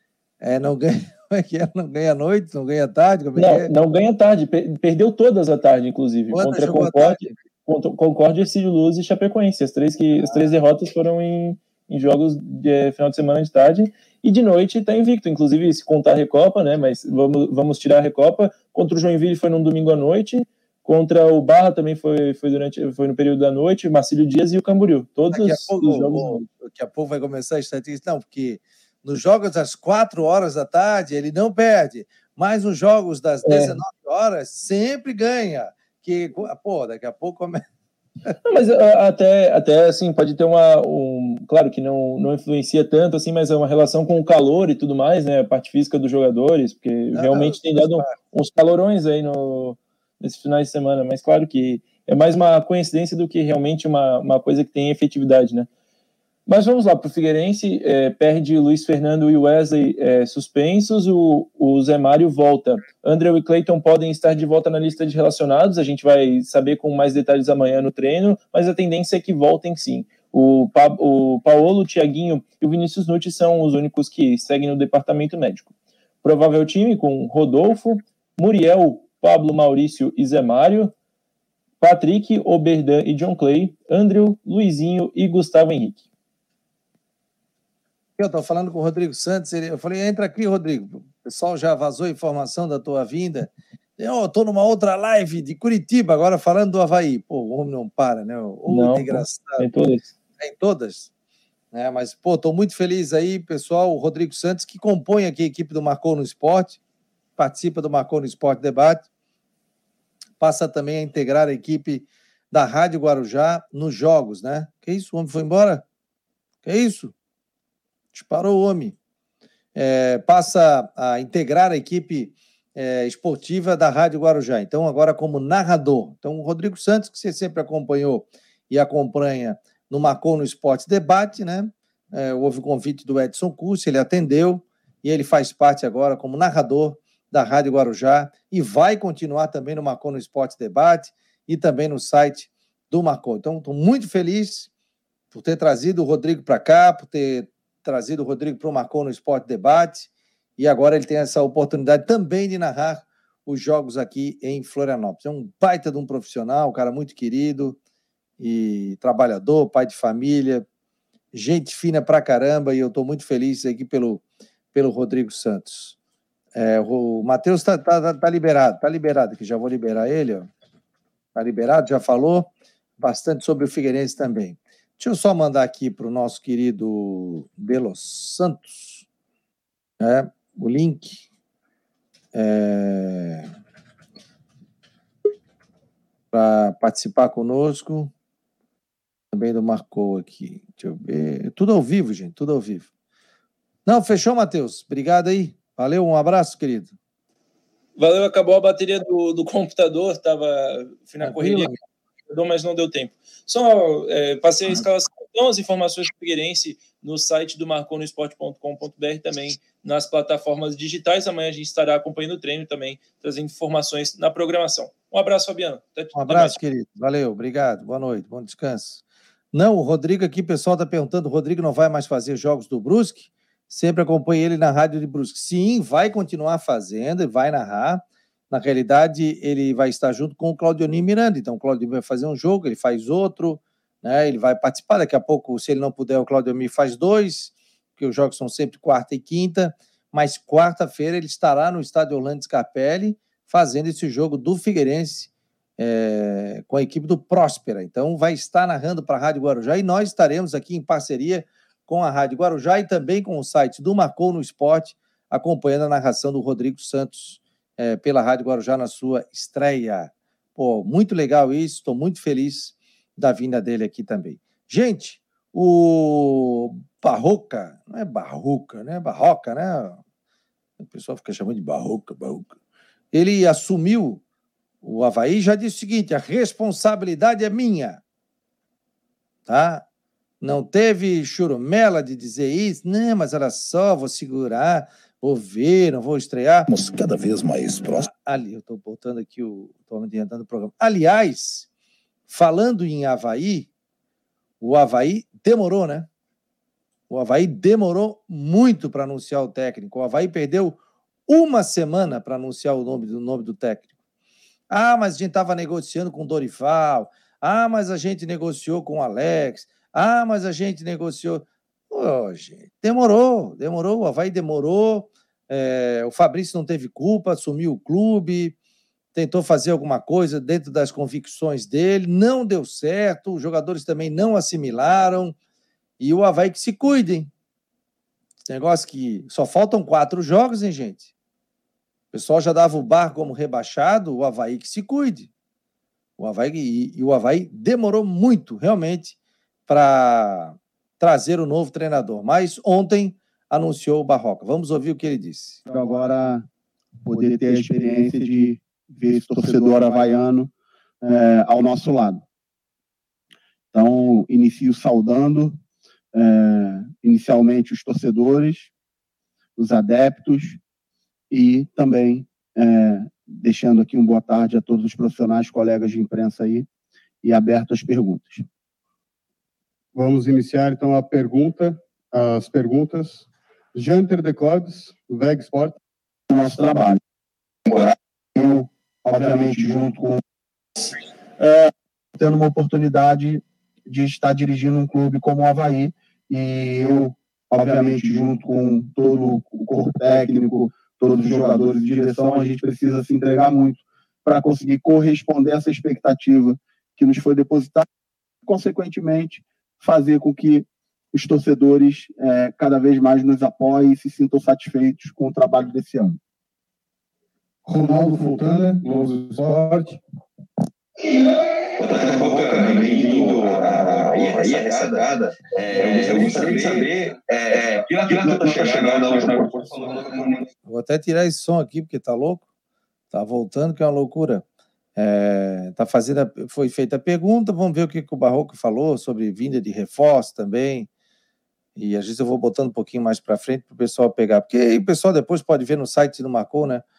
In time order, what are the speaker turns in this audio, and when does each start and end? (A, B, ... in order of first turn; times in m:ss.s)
0:00.4-0:03.7 A
0:03.4-0:26.4 B
0:06.3-0:07.3 A
0:25.3-0:37.6 A
0:33.4-0:33.8 B
0:38.4-0:55.7 B
0:47.1-0:48.1 A
0:56.5-1:15.7 B
1:16.2-1:20.9 B
1:21.8-1:26.0 B
1:28.2-1:39.6 A
1:38.7-1:40.1 B
1:40.4-1:41.1 A
1:41.7-1:46.8 A
1:47.4-1:49.0 A
1:50.4-1:55.8 A
1:56.6-1:57.1 A
1:58.1-1:59.0 A
1:59.7-2:24.7 A
2:25.3-2:37.8 A
2:38.4-2:40.6 A
2:41.3-2:46.0 A
2:46.5-2:50.5 A
2:51.3-2:59.0 A
3:00.0-3:01.2 A
3:02.3-3:03.5 A
3:06.3-3:08.1 A
3:09.3-3:12.9 A
3:13.8-3:16.9 A
3:18.0-3:21.7 B
3:21.2-3:21.8 A
3:22.3-3:36.6 B
3:36.1-3:39.0 A
3:39.5-4:30.0 A
4:30.8-4:32.5 A
4:33.1-4:34.2 A
4:34.8-4:38.0 A
4:39.5-4:39.8 A
4:40.4-4:46.7 A
4:46.7-4:48.1 C
4:48.0-4:51.7 A
4:52.3-4:53.7 A
4:54.6-4:56.1 A
4:57.1-5:03.9 A
5:04.7-5:18.6 A
5:19.1-5:25.3 A
5:26.0-5:27.3 A
5:28.5-5:31.1 A
5:32.1-5:35.3 A
5:36.2-5:39.2 A
5:39.7-5:45.6 A
5:45.6-5:46.4 D
5:47.0-5:50.5 D
5:51.0-5:52.2 D
5:53.7-5:55.6 D
5:56.1-5:58.7 D
5:59.6-6:00.6 D
6:01.3-6:06.6 D
6:07.2-6:08.4 D
6:09.9-6:15.8 E
6:16.3-6:17.0 D
6:18.3-6:20.2 D
6:21.4-6:21.6 D
6:22.2-6:37.8 D
6:38.4-6:46.2 D
6:47.7-6:48.9 D
6:48.0-6:50.0 E
6:51.1-7:00.5 F
6:52.2-6:53.6 D
6:55.8-6:56.8 C
7:00.6-7:02.4 A
7:03.1-7:04.4 A
7:05.0-7:10.9 A
7:11.8-7:16.8 A